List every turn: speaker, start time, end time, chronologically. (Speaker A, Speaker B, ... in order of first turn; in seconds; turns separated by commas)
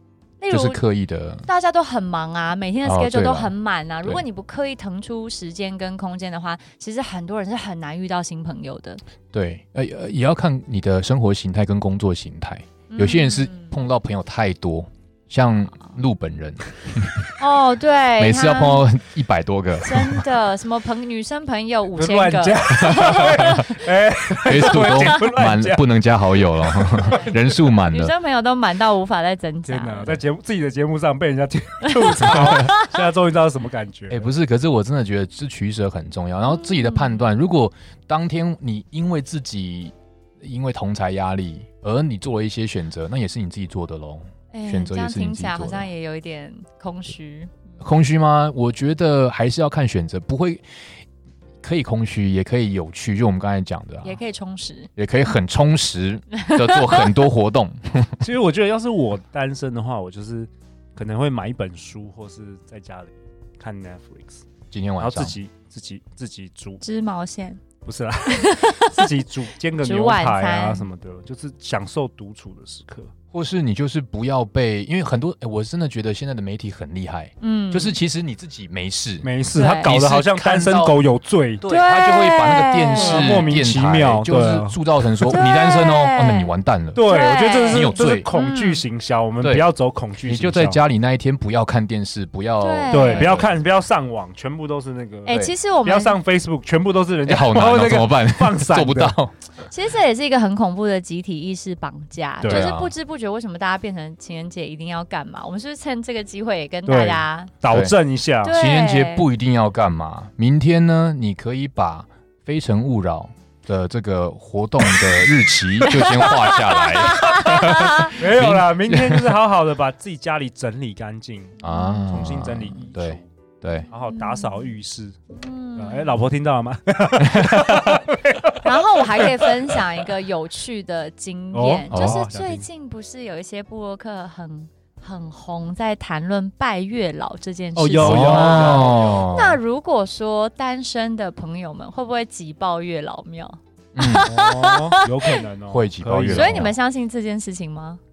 Speaker A: 0.4-0.8, Speaker B: 0.5-1.5, Speaker A: 1.4-9.0, Speaker B: 2.8-4.2, Speaker B: 9.3-17.3, Speaker A: 12.9-13.7, Speaker A: 17.4-18.9, Speaker B: 18.2-20.2, Speaker A: 19.8-23.6, Speaker C: 21.9-27.5, Speaker B: 22.9-23.6, Speaker B: 24.4-28.1, Speaker A: 27.1-27.4, Speaker A: 27.9-30.2, Speaker C: 29.6-34.3, Speaker A: 32.0-32.9, Speaker B: 34.1-45.9, Speaker A: 36.5-37.2, Speaker A: 44.5-47.5, Speaker B: 47.8-50.6, Speaker B: 51.6-54.2, Speaker A: 54.0-54.9, Speaker B: 55.0-58.2, Speaker A: 56.5-57.1, Speaker C: 58.2-64.5, Speaker B: 64.7-65.3, Speaker C: 65.0-66.8, Speaker A: 66.8-67.6, Speaker C: 67.8-73.1, Speaker A: 68.3-69.0, Speaker A: 69.8-70.9, Speaker B: 73.3-79.3, Speaker A: 77.4-78.0, Speaker C: 79.2-81.6, Speaker A: 79.5-79.9, Speaker B: 79.8-81.0, Speaker B: 81.6-87.1, Speaker A: 81.6-83.4, Speaker C: 83.0-84.8, Speaker A: 85.3-86.5, Speaker C: 86.9-90.8, Speaker A: 87.0-88.8, Speaker B: 87.7-88.3, Speaker B: 89.4-89.7, Speaker B: 90.2-93.5, Speaker A: 92.6-93.4, Speaker C: 92.9-99.1, Speaker A: 95.2-96.2, Speaker B: 95.3-95.5, Speaker B: 97.2-99.4, Speaker A: 99.6-107.5, Speaker C: 102.4-102.7, Speaker B: 102.5-102.9, Speaker C: 106.8-108.5, Speaker B: 107.7-108.0, Speaker A: 108.4-109.3, Speaker B: 108.5-119.4, Speaker A: 115.9-118.2, Speaker C: 118.2-121.6, Speaker B: 121.6-123.9, Speaker A: 121.6-122.3, Speaker C: 122.1-123.3, Speaker C: 123.9-125.2, Speaker A: 124.0-124.7, Speaker A: 125.3-126.2, Speaker C: 125.8-130.0, Speaker B: 127.2-127.6, Speaker A: 128.6-144.9, Speaker C: 131.5-132.7, Speaker B: 131.9-132.2, Speaker C: 137.8-139.1, Speaker B: 138.0-139.6, Speaker B: 143.9-144.3, Speaker C: 144.2-146.7, Speaker B: 145.7-146.7, Speaker A: 146.3-148.0